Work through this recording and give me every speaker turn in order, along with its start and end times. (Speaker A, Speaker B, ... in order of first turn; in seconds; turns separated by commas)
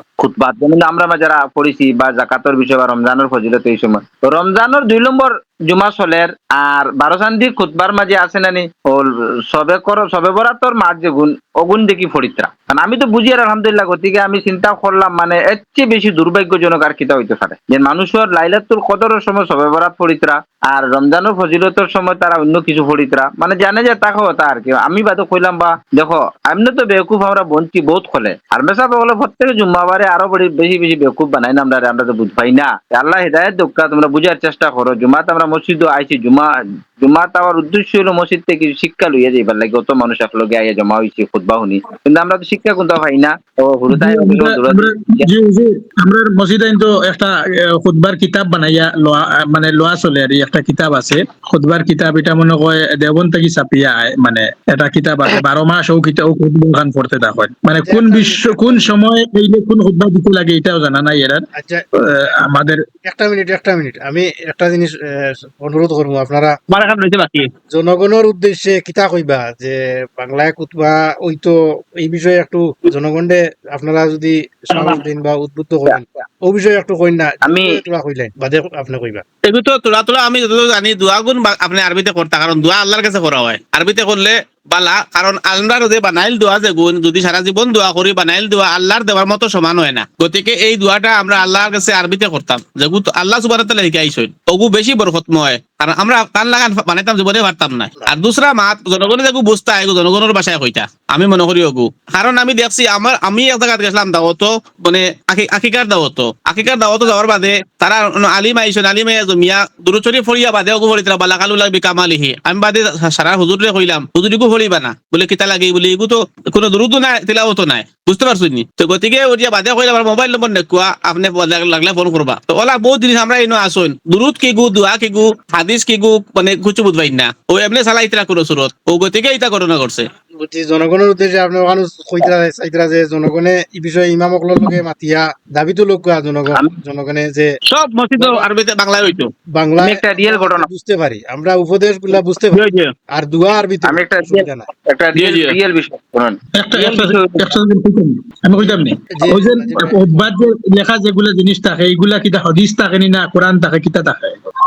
Speaker A: 0.2-36.5, Speaker A: 37.0-45.3, Speaker B: 43.9-61.4, Speaker C: 57.8-58.9, Speaker C: 61.5-61.8, Speaker B: 62.0-62.8, Speaker C: 63.0-66.5, Speaker D: 66.7-67.5, Speaker C: 67.7-79.2, Speaker D: 74.7-75.0, Speaker A: 77.4-77.8, Speaker D: 79.4-130.1, Speaker C: 130.4-137.5, Speaker D: 137.7-139.3, Speaker C: 138.2-138.5, Speaker C: 139.5-144.7, Speaker A: 139.8-140.7, Speaker D: 142.5-142.9, Speaker A: 143.8-147.5, Speaker D: 145.1-145.6, Speaker B: 146.6-154.5, Speaker C: 148.6-150.3